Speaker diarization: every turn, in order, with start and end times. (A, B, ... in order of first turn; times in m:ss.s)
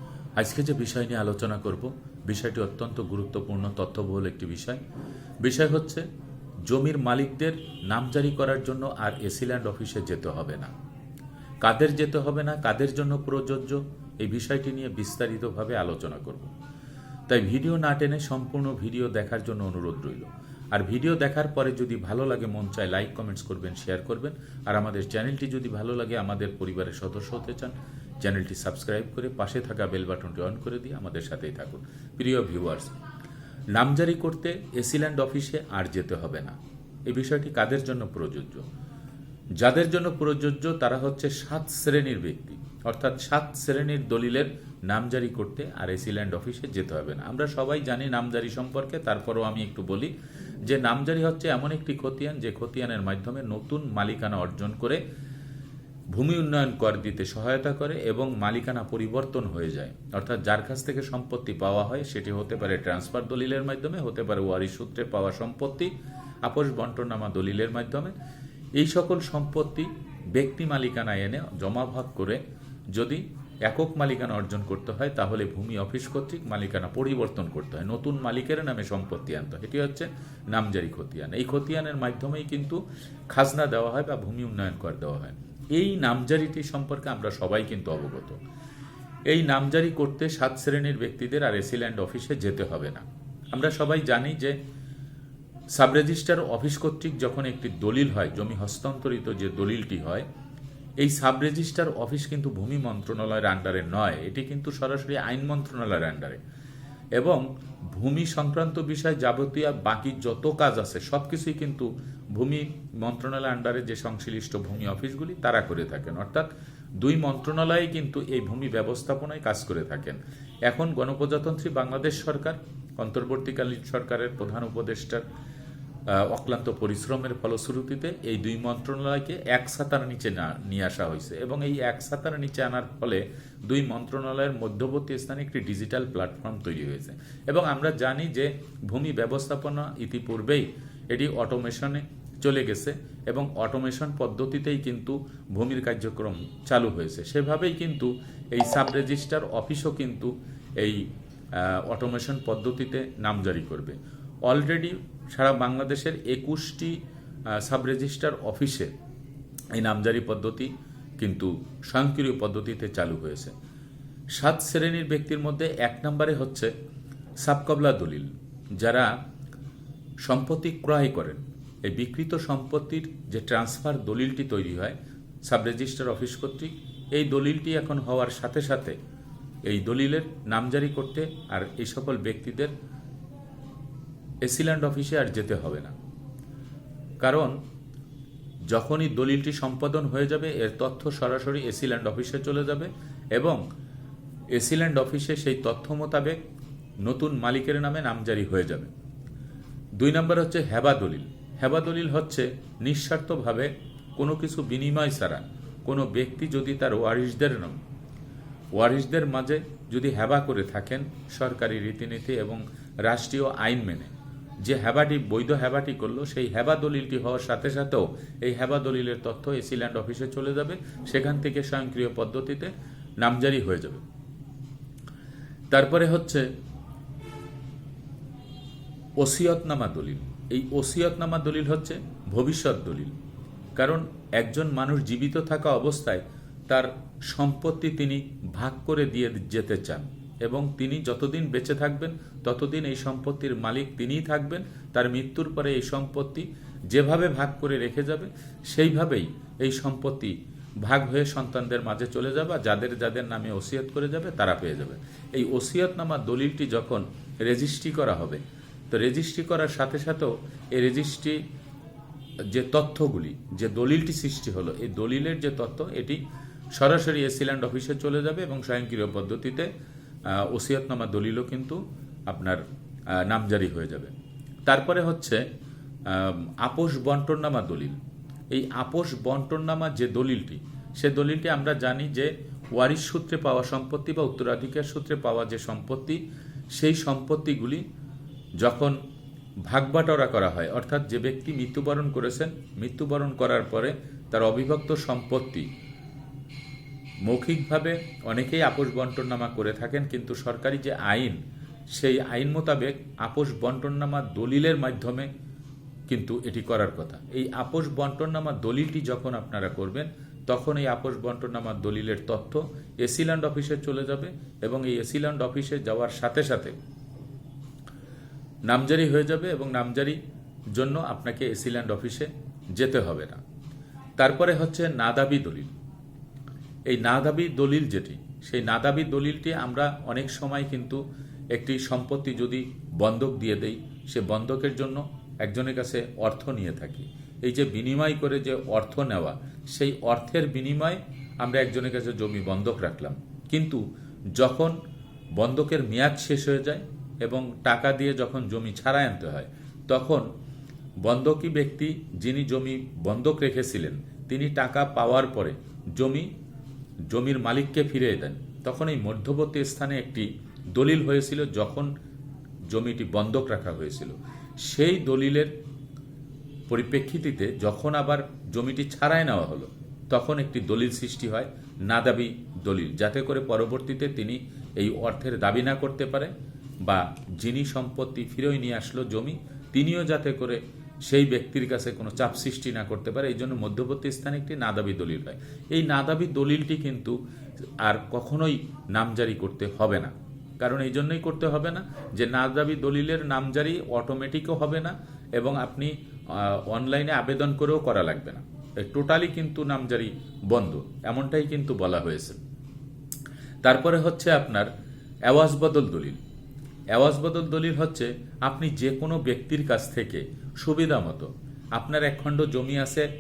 0:00.4-0:04.8 A
0:05.4-0:06.0 A
0:06.6-0:10.7 A
0:11.6-0:16.5 A
0:17.3-0:32.9 A
0:33.7-0:36.6 A
0:37.1-0:38.6 A
0:39.6-0:50.1 A
0:50.6-0:55.0 A
0:56.1-1:05.9 A
1:06.4-1:08.1 A
1:08.8-1:12.4 A
1:12.9-1:22.8 A
1:23.3-1:28.4 A
1:29.3-1:34.6 A
1:35.7-1:40.2 A
1:41.0-1:46.4 A
1:47.2-1:56.5 A
1:57.0-2:05.2 A
2:06.1-2:37.0 A
2:37.5-2:38.9 A
2:39.7-2:43.5 A
2:44.4-2:46.7 A
2:47.4-2:49.1 A
2:50.2-2:59.0 A
2:59.6-3:02.7 A
3:04.4-3:05.9 A
3:07.2-3:07.5 A
3:08.7-3:13.6 A
3:14.5-3:16.4 A
3:17.0-3:18.9 A
3:20.0-3:27.8 A
3:28.7-3:44.0 A
3:45.7-3:46.4 A
3:49.2-3:53.1 A
3:53.8-4:21.4 A
4:22.5-4:26.2 A
4:26.7-4:29.7 A
4:30.3-4:31.8 A
4:32.3-4:32.6 A
4:33.1-4:34.1 A
4:34.6-4:35.4 A
4:36.1-4:38.0 A
4:38.5-4:46.2 A
4:46.7-4:47.8 A
4:48.6-4:49.0 A
4:49.6-4:55.7 A
4:57.2-5:01.4 A
5:01.9-5:05.3 A
5:06.1-5:16.7 A
5:18.7-5:20.2 A
5:20.7-5:23.4 A
5:24.2-5:25.7 A
5:26.9-5:31.0 A
5:31.5-5:43.8 A
5:44.4-5:44.8 A
5:45.4-5:50.2 A
5:51.0-5:56.3 A
5:57.1-6:01.9 A
6:02.7-6:05.5 A
6:06.7-6:16.3 A
6:16.8-6:27.2 A
6:27.8-6:42.4 A
6:43.6-6:44.7 A
6:45.3-6:46.2 A
6:46.9-6:53.1 A